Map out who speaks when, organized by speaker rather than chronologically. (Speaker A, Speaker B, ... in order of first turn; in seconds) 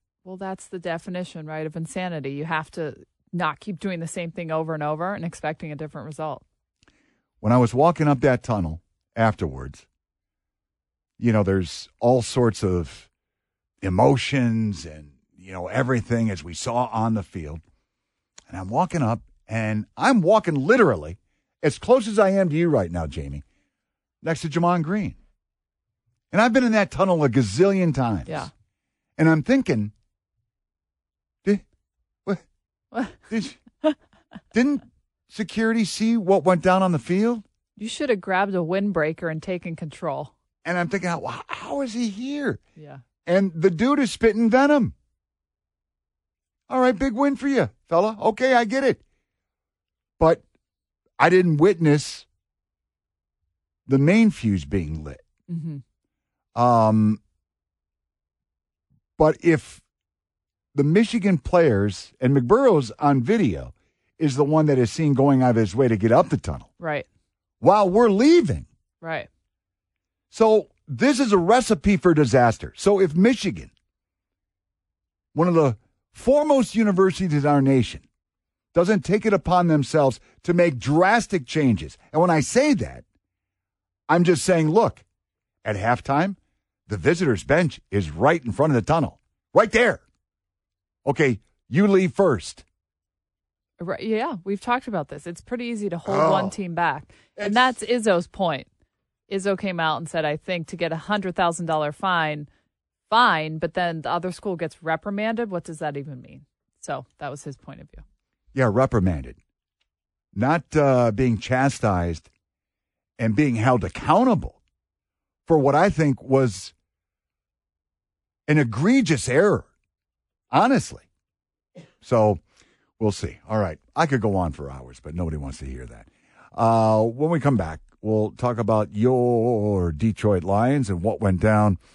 Speaker A: 0.2-6.4, 32.9-33.2, 37.8-40.3, 42.8-43.0, 55.5-55.8, 66.8-67.1, 69.0-69.3, 93.8-98.7, 99.3-102.5, 103.1-108.0
Speaker B: 7.4-9.9, 11.2-13.1, 13.8-17.6, 18.5-23.4, 24.2-25.2, 26.3-28.5, 29.2-29.9, 33.3-33.6, 34.5-37.4, 40.6-42.6, 43.2-44.9, 46.7-49.0, 51.2-52.3, 53.9-55.2, 56.5-57.2, 59.2-59.8, 60.7-66.7, 67.6-68.7, 70.3-73.7, 75.3-78.0, 78.7-83.0, 84.1-85.0, 85.6-90.0, 91.0-92.6, 96.1-96.5, 97.4-97.7, 108.5-109.4, 110.3-112.3, 113.2-114.6, 115.5-116.7, 118.5-119.7, 120.5-121.1, 122.0-122.4, 123.0-131.8